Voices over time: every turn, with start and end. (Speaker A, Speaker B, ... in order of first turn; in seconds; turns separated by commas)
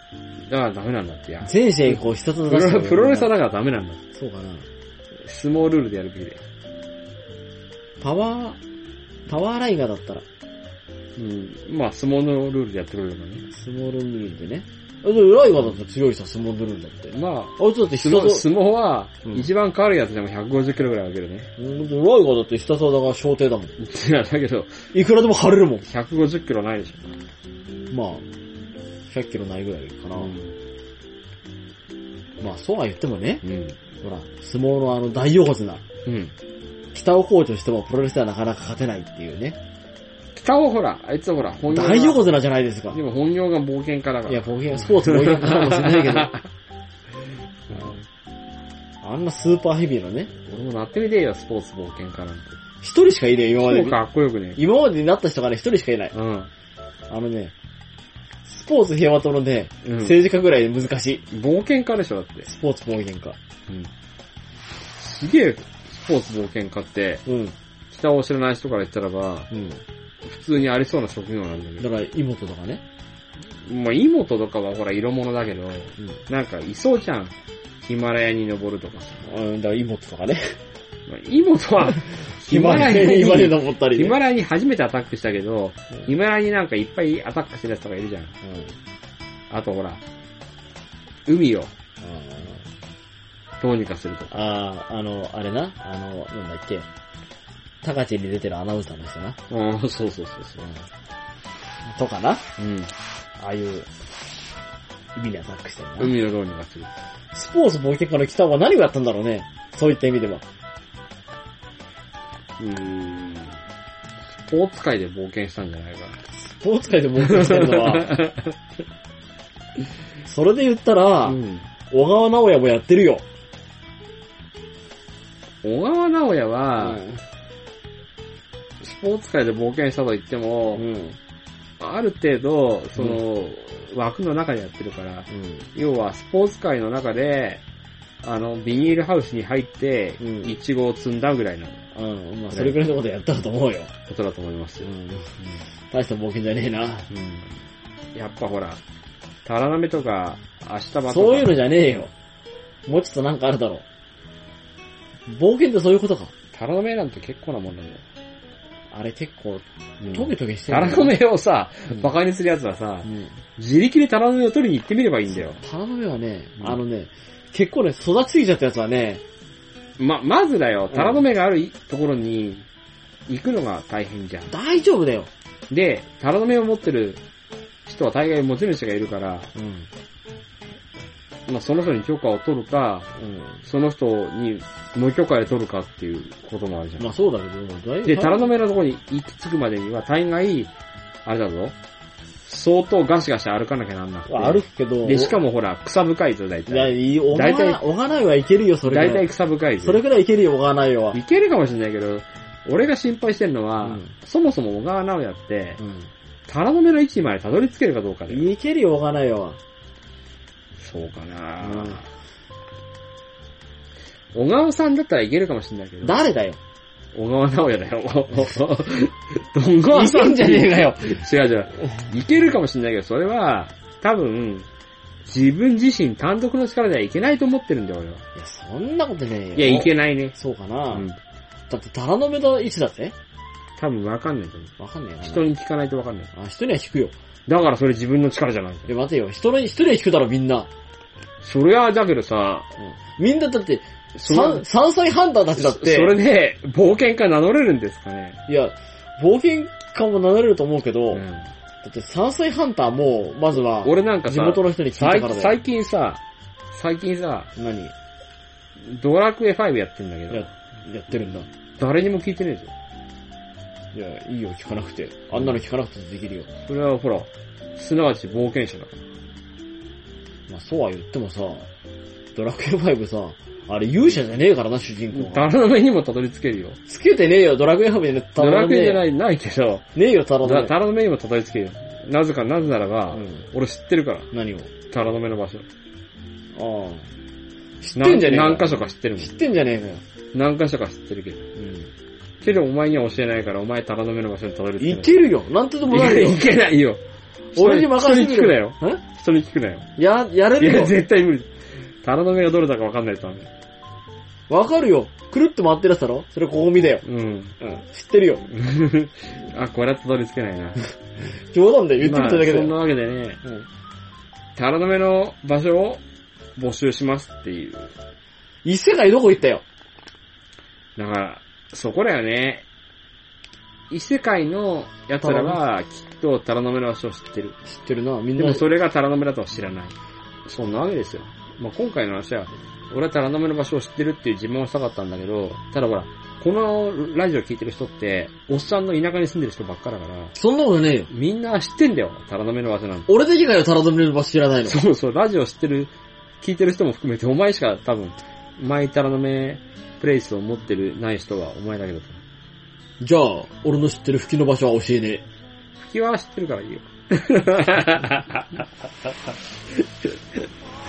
Speaker A: 0.5-4.0, Speaker B: 1.4-3.3, Speaker B: 4.1-4.7, Speaker A: 5.2-6.4, Speaker B: 8.0-8.6, Speaker B: 9.3-10.2, Speaker A: 11.2-13.4, Speaker B: 13.5-18.5, Speaker A: 17.1-21.5, Speaker B: 21.6-23.7, Speaker A: 23.8-24.8, Speaker B: 24.9-25.9, Speaker A: 25.8-27.2, Speaker B: 27.9-28.2, Speaker B: 29.1-30.3, Speaker A: 30.2-30.6, Speaker B: 32.4-33.4, Speaker A: 33.4-33.8, Speaker B: 34.0-35.8, Speaker A: 36.1-36.3, Speaker B: 36.9-39.6, Speaker A: 40.4-42.3, Speaker B: 41.7-43.0, Speaker A: 42.9-46.5, Speaker B: 44.3-46.3, Speaker A: 47.7-48.0, Speaker B: 49.0-50.3, Speaker A: 50.4-52.6, Speaker B: 52.8-54.0, Speaker A: 53.6-54.6, Speaker B: 54.6-56.1, Speaker A: 56.1-56.5, Speaker B: 57.1-57.5, Speaker B: 58.5-61.3, Speaker A: 59.9-60.2, Speaker A: 61.3-62.5, Speaker B: 62.5-63.4, Speaker A: 65.0-67.3, Speaker B: 67.3-67.5, Speaker A: 67.9-69.5, Speaker B: 69.5-69.8, Speaker A: 70.2-71.9, Speaker B: 71.8-72.8, Speaker A: 73.5-79.3, Speaker B: 79.2-80.6, Speaker A: 81.1-88.3, Speaker B: 82.4-84.2, Speaker B: 88.4-88.8, Speaker A: 89.5-90.0, Speaker A: 91.3-91.7, Speaker B: 92.0-92.7, Speaker A: 93.6-94.4, Speaker B: 94.3-96.9, Speaker B: 97.8-99.4, Speaker A: 99.5-100.7, Speaker B: 101.9-102.5, Speaker A: 102.6-102.9, Speaker B: 103.4-103.9, Speaker B: 105.2-106.2, Speaker A: 106.0-106.9, Speaker B: 107.3-110.4, Speaker A: 112.6-113.6, Speaker A: 114.4-116.2, Speaker B: 116.3-118.2, Speaker A: 117.2-118.5, Speaker B: 120.2-123.2, Speaker A: 121.2-121.7, Speaker A: 125.6-127.0, Speaker B: 126.8-127.2, Speaker A: 128.8-130.9, Speaker B: 130.8-131.2, Speaker A: 131.8-137.6, Speaker B: 135.3-135.7, Speaker A: 138.2-141.8, Speaker B: 140.2-140.6, Speaker B: 141.9-143.9, Speaker A: 142.5-142.8, Speaker A: 144.1-144.9, Speaker B: 144.8-147.1, Speaker A: 147.1-147.5, Speaker A: 148.2-148.8, Speaker A: 149.4-152.0, Speaker B: 151.1-152.1, Speaker B: 152.9-153.8, Speaker B: 155.3-156.3, Speaker A: 156.5-158.0, Speaker B: 158.9-161.2, Speaker A: 160.0-165.6, Speaker B: 163.1-163.3, Speaker B: 165.3-169.2, Speaker A: 170.0-172.7, Speaker B: 170.9-171.2, Speaker A: 173.3-174.5, Speaker B: 174.5-175.3, Speaker A: 175.7-177.2, Speaker A: 177.9-179.5, Speaker B: 179.6-179.9, Speaker A: 181.5-183.1, Speaker B: 183.2-183.6, Speaker A: 183.6-187.2, Speaker B: 187.0-188.5, Speaker A: 188.1-190.7, Speaker A: 191.2-191.8, Speaker A: 192.4-197.8, Speaker B: 194.3-195.4, Speaker B: 196.7-199.3, Speaker A: 198.9-200.0, Speaker B: 199.8-201.2, Speaker A: 201.1-205.8, Speaker B: 203.8-204.1, Speaker B: 205.8-206.1, Speaker A: 206.5-208.5, Speaker B: 208.3-209.6, Speaker A: 210.8-212.1, Speaker B: 211.6-212.0, Speaker A: 214.3-216.2, Speaker B: 216.0-216.6, Speaker A: 217.1-224.7, Speaker B: 219.9-221.2, Speaker A: 225.2-228.3, Speaker B: 228.4-231.1, Speaker A: 229.6-230.3, Speaker A: 230.9-231.2, Speaker B: 231.7-233.2, Speaker A: 233.8-236.3, Speaker B: 234.8-235.5, Speaker B: 236.3-237.1, Speaker A: 237.5-238.9, Speaker B: 238.9-240.7, Speaker A: 241.4-242.7, Speaker B: 242.8-246.2, Speaker A: 244.2-244.6, Speaker A: 245.6-248.4, Speaker B: 248.5-251.2, Speaker A: 251.1-251.5, Speaker B: 251.8-255.6, Speaker A: 253.8-256.2, Speaker A: 256.7-257.5, Speaker B: 257.6-257.9, Speaker A: 258.8-260.5, Speaker B: 260.3-261.5, Speaker A: 261.8-262.7, Speaker B: 263.9-266.5, Speaker A: 266.7-269.0, Speaker B: 270.5-271.7, Speaker B: 272.4-275.5, Speaker A: 275.1-276.8, Speaker B: 276.9-279.1, Speaker A: 278.4-279.9, Speaker B: 279.9-280.7, Speaker A: 280.4-284.3, Speaker B: 283.1-283.4, Speaker B: 284.3-284.7, Speaker A: 284.9-285.7, Speaker B: 286.5-287.1, Speaker B: 287.8-290.0, Speaker A: 288.0-289.3, Speaker A: 290.3-291.5, Speaker B: 291.6-291.9, Speaker A: 292.4-295.2, Speaker B: 294.8-296.4, Speaker A: 295.9-297.0, Speaker B: 297.6-299.0, Speaker A: 297.6-299.9, Speaker B: 300.0-301.0, Speaker A: 300.6-303.5, Speaker B: 304.5-307.0, Speaker A: 307.0-307.6, Speaker B: 307.6-308.5, Speaker A: 308.5-310.9, Speaker B: 311.5-312.8, Speaker A: 312.0-313.4, Speaker A: 314.6-316.0, Speaker A: 316.6-317.9, Speaker B: 318.6-319.6, Speaker A: 321.0-322.6, Speaker A: 323.9-327.6, Speaker B: 325.2-325.6, Speaker B: 327.6-328.6, Speaker A: 328.4-329.9, Speaker A: 330.5-340.4, Speaker B: 340.4-341.1, Speaker A: 341.1-343.1, Speaker B: 343.1-344.8, Speaker A: 344.6-352.2, Speaker B: 353.0-355.2, Speaker A: 355.8-359.1, Speaker A: 359.7-360.5